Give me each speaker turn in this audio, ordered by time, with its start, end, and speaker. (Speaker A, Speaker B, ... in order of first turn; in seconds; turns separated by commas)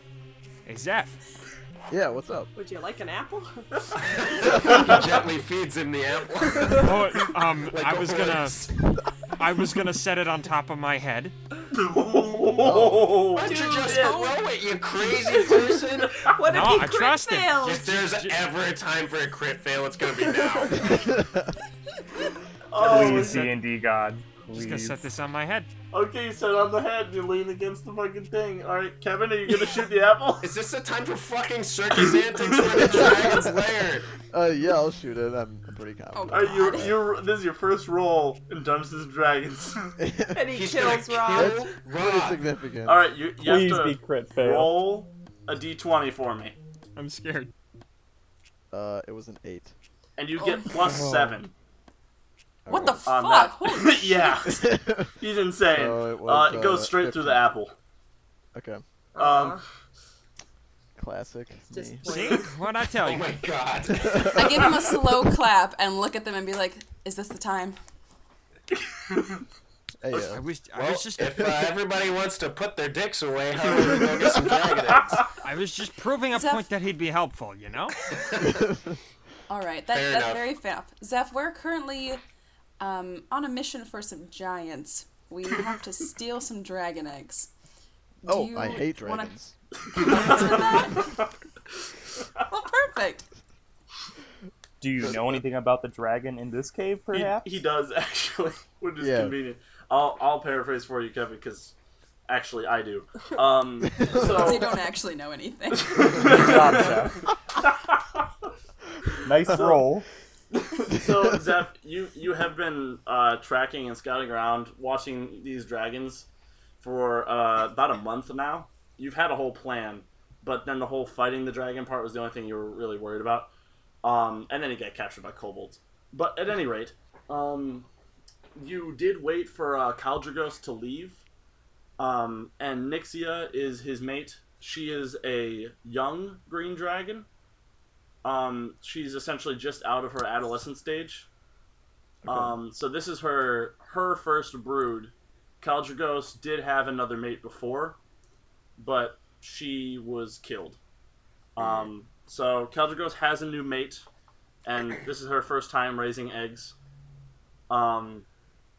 Speaker A: 0.7-1.2, Speaker B: 1.9-2.5, Speaker C: 2.5-4.8, Speaker D: 4.1-7.0, Speaker A: 6.7-8.7, Speaker D: 7.7-8.7, Speaker A: 9.3-11.3, Speaker E: 11.7-14.2, Speaker B: 12.6-13.3, Speaker D: 13.3-16.3, Speaker F: 13.5-14.3, Speaker C: 15.1-17.9, Speaker A: 16.4-18.4, Speaker D: 17.6-21.1, Speaker C: 20.2-20.9, Speaker B: 20.9-21.5, Speaker E: 22.7-23.5, Speaker G: 22.8-25.1, Speaker A: 24.5-25.7, Speaker E: 25.9-30.5, Speaker D: 30.4-34.0, Speaker E: 32.6-33.1, Speaker B: 32.8-33.6, Speaker B: 34.3-37.0, Speaker F: 36.1-36.9, Speaker E: 36.3-39.9, Speaker B: 40.0-40.6, Speaker C: 40.3-41.7, Speaker D: 40.5-42.4, Speaker B: 41.2-43.0, Speaker E: 42.8-46.6, Speaker G: 43.4-44.8, Speaker A: 47.0-47.5, Speaker B: 48.7-49.7, Speaker E: 50.2-51.5, Speaker F: 50.4-50.7, Speaker G: 50.9-51.4, Speaker B: 52.6-53.1, Speaker F: 52.7-54.4, Speaker E: 53.0-57.7, Speaker B: 54.4-55.1, Speaker B: 55.7-57.4, Speaker B: 58.5-58.8, Speaker C: 59.1-59.6, Speaker E: 59.2-59.6, Speaker B: 61.0-62.4, Speaker C: 61.7-62.6, Speaker A: 62.0-63.3, Speaker D: 63.0-64.5, Speaker B: 63.9-64.4, Speaker F: 64.3-67.8, Speaker E: 69.1-69.4, Speaker B: 70.0-70.4, Speaker A: 70.3-71.6, Speaker D: 70.7-75.2, Speaker A: 75.4-78.0, Speaker F: 76.3-76.7, Speaker D: 78.1-78.5, Speaker B: 78.5-79.0, Speaker F: 79.5-82.2, Speaker D: 79.9-80.5, Speaker F: 82.8-87.5, Speaker F: 88.2-89.3, Speaker B: 88.2-89.5, Speaker F: 89.9-91.2, Speaker E: 90.0-91.0, Speaker F: 92.4-93.3, Speaker G: 94.8-97.6, Speaker B: 95.0-95.4, Speaker E: 97.1-101.7, Speaker B: 99.0-99.4, Speaker E: 102.3-104.7, Speaker B: 103.9-104.6, Speaker F: 104.1-106.5, Speaker E: 105.8-107.0, Speaker G: 106.1-107.2, Speaker E: 107.6-108.2, Speaker G: 109.2-110.0, Speaker E: 109.5-109.8, Speaker E: 110.5-116.2, Speaker E: 116.8-123.5, Speaker E: 124.0-127.9, Speaker E: 128.5-131.2, Speaker E: 132.0-137.3, Speaker E: 138.2-141.3, Speaker B: 142.2-142.6, Speaker E: 142.3-148.0, Speaker E: 148.8-150.8, Speaker E: 151.6-154.1, Speaker D: 151.6-151.9, Speaker E: 154.6-156.7, Speaker E: 157.7-158.2